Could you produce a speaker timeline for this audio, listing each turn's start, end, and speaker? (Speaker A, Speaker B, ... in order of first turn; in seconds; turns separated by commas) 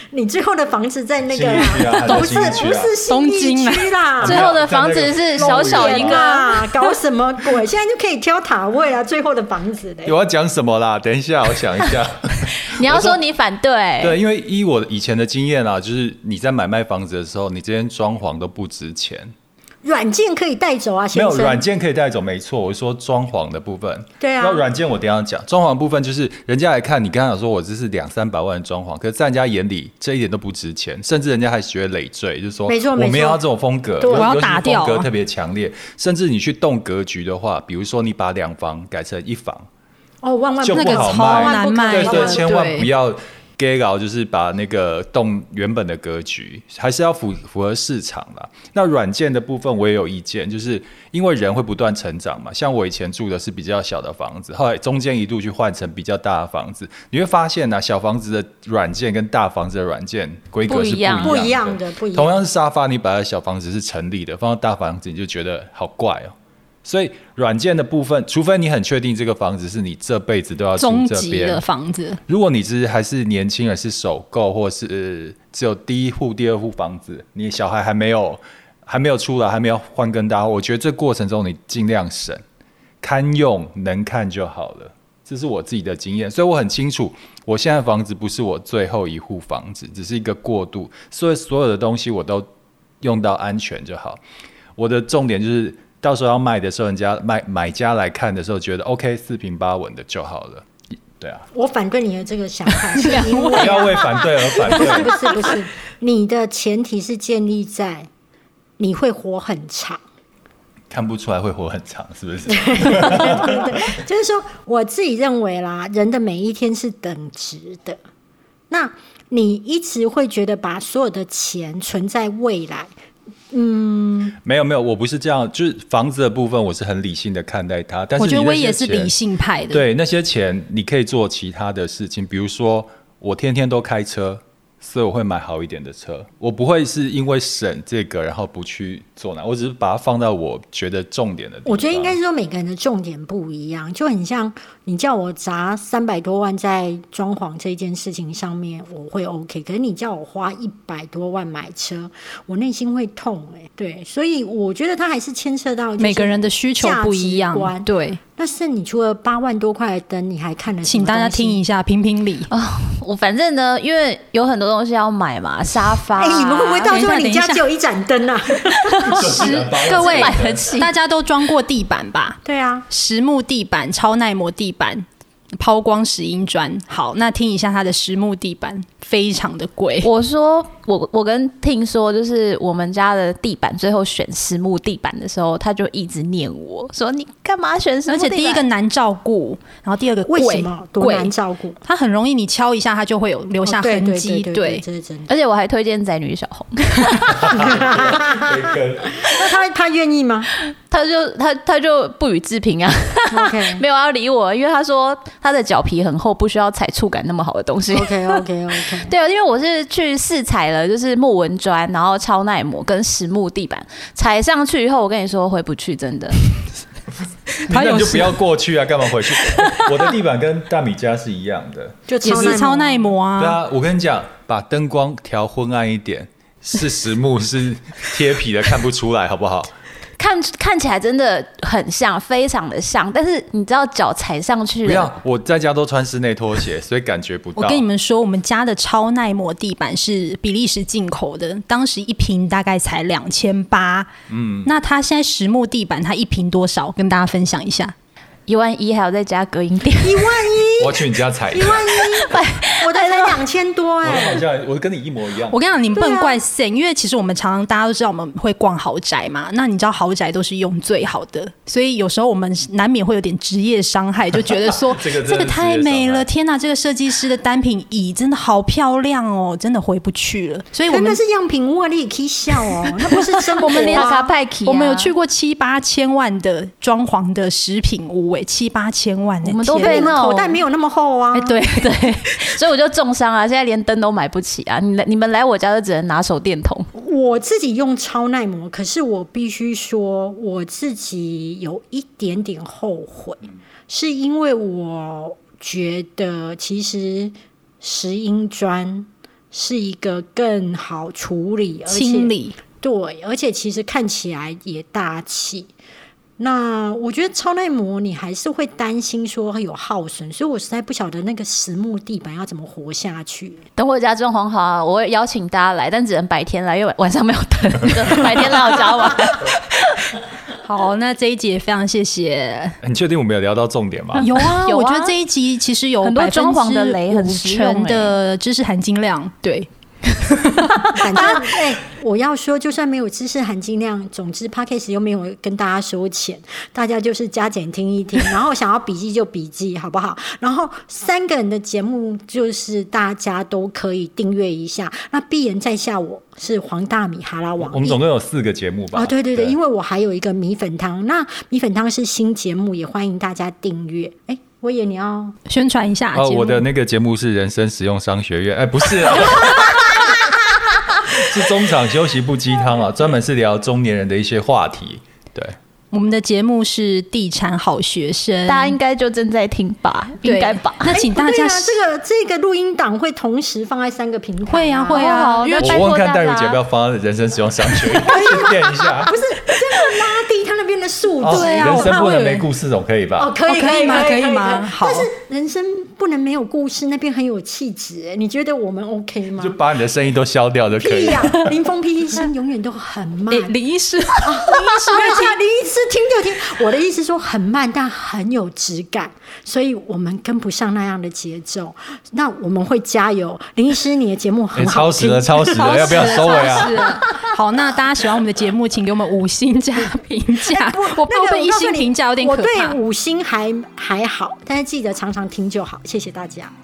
Speaker A: 0.1-4.4, Speaker B: 1.3-3.0, Speaker C: 3.1-3.9, Speaker B: 4.2-6.3, Speaker D: 4.2-6.7, Speaker A: 5.4-10.1, Speaker B: 10.1-13.2, Speaker D: 12.7-14.2, Speaker B: 14.0-19.3, Speaker A: 19.8-21.6, Speaker B: 21.1-39.7, Speaker A: 24.2-24.7, Speaker A: 32.7-33.4, Speaker A: 34.0-34.4, Speaker C: 34.1-35.1, Speaker A: 40.2-42.5, Speaker B: 40.6-66.3, Speaker C: 40.7-42.9, Speaker D: 60.7-61.4, Speaker A: 61.2-62.4, Speaker B: 66.8-71.7, Speaker C: 70.8-72.2, Speaker B: 72.3-82.4, Speaker B: 83.0-92.5, Speaker B: 93.0-94.2, Speaker B: 94.8-100.6, Speaker B: 101.2-101.5, Speaker A: 101.5-108.1, Speaker C: 103.0-103.7, Speaker B: 103.6-105.2, Speaker A: 108.8-110.0, Speaker B: 110.9-113.7, Speaker A: 112.5-118.0, Speaker A: 118.7-122.9, Speaker A: 123.5-124.4, Speaker B: 124.4-129.2, Speaker C: 128.2-129.8, Speaker B: 129.7-142.2, Speaker A: 141.7-161.6, Speaker C: 156.0-158.2, Speaker C: 160.8-162.5, Speaker D: 162.5-167.0, Speaker A: 166.2-169.5, Speaker C: 166.8-167.6, Speaker D: 168.9-169.2, Speaker B: 169.1-170.7, Speaker C: 169.2-180.1, Speaker D: 169.9-170.9, Speaker A: 172.4-172.9, Speaker D: 180.0-188.7, Speaker C: 188.1-194.8, Speaker A: 190.3-191.8, Speaker A: 193.6-195.3, Speaker D: 195.3-198.0, Speaker B: 197.4-199.2, Speaker A: 197.6-198.7, Speaker A: 199.2-200.5, Speaker D: 200.9-208.4, Speaker A: 203.3-203.8, Speaker A: 207.9-209.1, Speaker D: 209.0-216.4, Speaker C: 217.7-218.4, Speaker B: 217.7-222.6, Speaker A: 222.1-223.2, Speaker C: 222.2-223.6, Speaker B: 223.4-229.7, Speaker D: 230.2-235.1, Speaker B: 234.8-237.9, Speaker C: 237.6-244.1, Speaker B: 244.3-244.7, Speaker C: 244.7-247.9, Speaker D: 248.5-250.3, Speaker A: 250.0-254.4, Speaker B: 250.8-251.8, Speaker D: 251.8-253.4, Speaker B: 254.0-255.7, Speaker C: 255.4-271.2, Speaker A: 255.9-256.4, Speaker B: 264.9-266.3, Speaker A: 270.9-274.3, Speaker C: 272.8-280.2, Speaker D: 273.6-275.1, Speaker D: 279.4-280.6, Speaker A: 279.8-281.6, Speaker C: 281.3-282.1, Speaker D: 281.6-286.9, Speaker A: 286.9-305.7, Speaker C: 301.9-302.6, Speaker A: 306.4-313.6, Speaker D: 313.8-320.1, Speaker C: 320.6-322.8, Speaker B: 322.8-324.4, Speaker C: 324.2-331.4, Speaker D: 324.6-325.2, Speaker D: 326.0-328.1, Speaker A: 331.0-348.0, Speaker B: 347.6-349.6, Speaker A: 348.9-355.4, Speaker C: 355.5-356.6, Speaker B: 356.1-360.1, Speaker B: 361.1-365.6, Speaker C: 365.9-368.8, Speaker D: 368.5-370.9, Speaker C: 370.2-371.8, Speaker A: 370.9-375.1, Speaker C: 374.5-375.8, Speaker D: 374.9-376.6, Speaker B: 375.6-379.1, Speaker A: 378.0-382.3, Speaker B: 381.2-383.3, Speaker C: 381.3-382.4, Speaker A: 383.2-389.6, Speaker C: 383.5-385.1, Speaker B: 389.4-391.5, Speaker A: 390.8-393.6, Speaker C: 393.3-395.4, Speaker A: 394.2-406.8, Speaker B: 404.5-406.9, Speaker C: 405.4-412.8, Speaker A: 410.4-416.5